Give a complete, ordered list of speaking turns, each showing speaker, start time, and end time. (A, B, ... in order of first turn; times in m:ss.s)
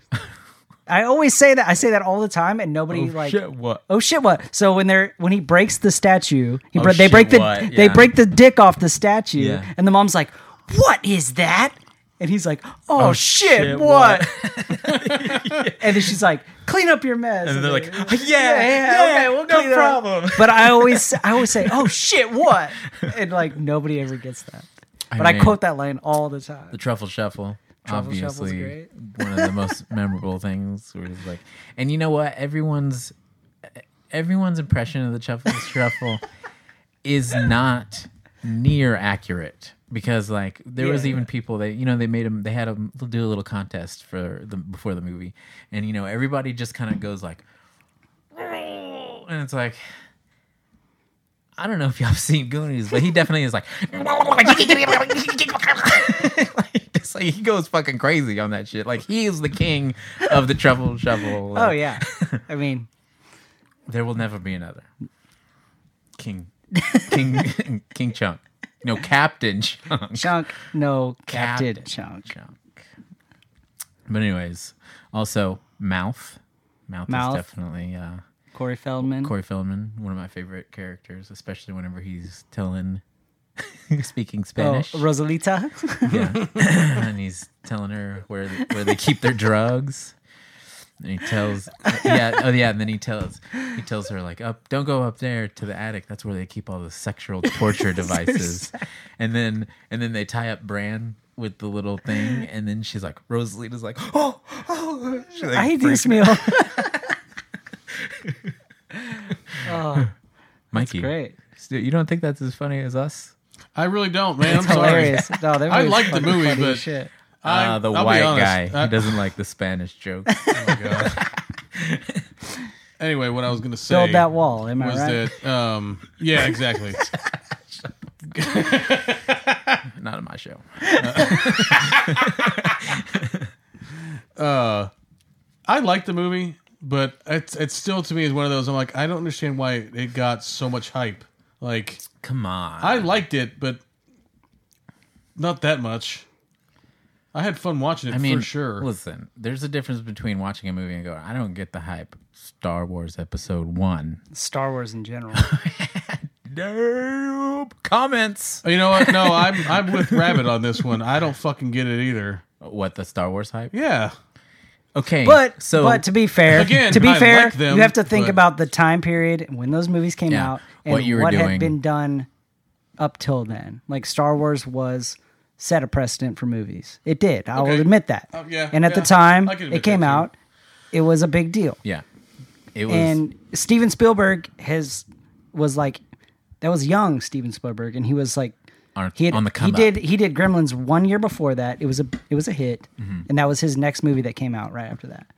0:00.9-0:14.3 A
0:02.9-0:03.8 B
0:06.8-0:08.1 B
0:09.4-0:09.7 B
0:13.0-0:16.2 B
0:14.9-0:15.5 C
0:15.6-0:26.8 A
0:17.4-0:22.1 B
0:22.9-0:23.2 B
0:25.1-0:25.6 B
0:26.7-0:36.2 B
0:27.8-0:28.9 A
0:37.0-0:47.4 B
0:40.8-0:41.3 A
0:48.3-0:49.8 B
0:51.6-1:02.4 B
1:01.5-1:02.9 A
1:03.9-1:04.9 B
1:06.2-1:10.4 B
1:06.8-1:07.2 A
1:10.1-1:12.3 A
1:11.3-1:12.9 B
1:14.1-1:18.2 B
1:17.1-1:17.4 A
1:18.5-1:19.3 A
1:19.0-1:23.0 B
1:23.6-1:25.1 B
1:24.6-1:26.2 A
1:26.1-1:30.2 B
1:26.2-1:26.5 C
1:31.0-1:47.0 B
1:37.8-1:38.8 A
1:45.4-1:47.1 A
1:47.9-1:48.5 B
1:49.3-1:50.1 B
1:49.6-1:50.1 A
1:50.7-1:53.4 B
1:50.7-1:51.4 A
1:53.8-1:56.8 C
1:54.4-1:57.1 A
1:57.4-1:59.2 C
1:57.4-2:02.3 B
2:00.3-2:00.7 A
2:00.5-2:01.2 C
2:03.0-2:04.3 C
2:03.9-2:05.3 A
2:04.8-2:07.1 C
2:07.1-2:08.0 B
2:08.3-2:09.8 C
2:09.9-2:13.5 B
2:11.0-2:12.3 C
2:11.0-2:11.6 A
2:14.4-2:14.9 C
2:15.7-2:22.0 C
2:22.2-2:23.1 B
2:22.8-2:23.8 C
2:25.4-2:26.3 C
2:27.3-2:28.9 C
2:28.1-2:34.2 B
2:34.3-2:35.5 A
2:35.3-2:41.0 B
2:38.6-2:42.4 C
2:42.6-2:43.7 B
2:43.7-2:44.2 C
2:45.0-2:46.1 B
2:45.2-2:52.3 A
2:46.5-2:48.4 C
2:50.3-2:51.8 B
2:53.0-3:00.4 A
2:57.6-3:00.3 C
3:00.9-3:01.8 A
3:02.7-3:03.2 B
3:02.9-3:06.0 A
3:06.6-3:08.6 A
3:09.0-3:10.0 B
3:09.2-3:15.3 A
3:13.0-3:13.3 B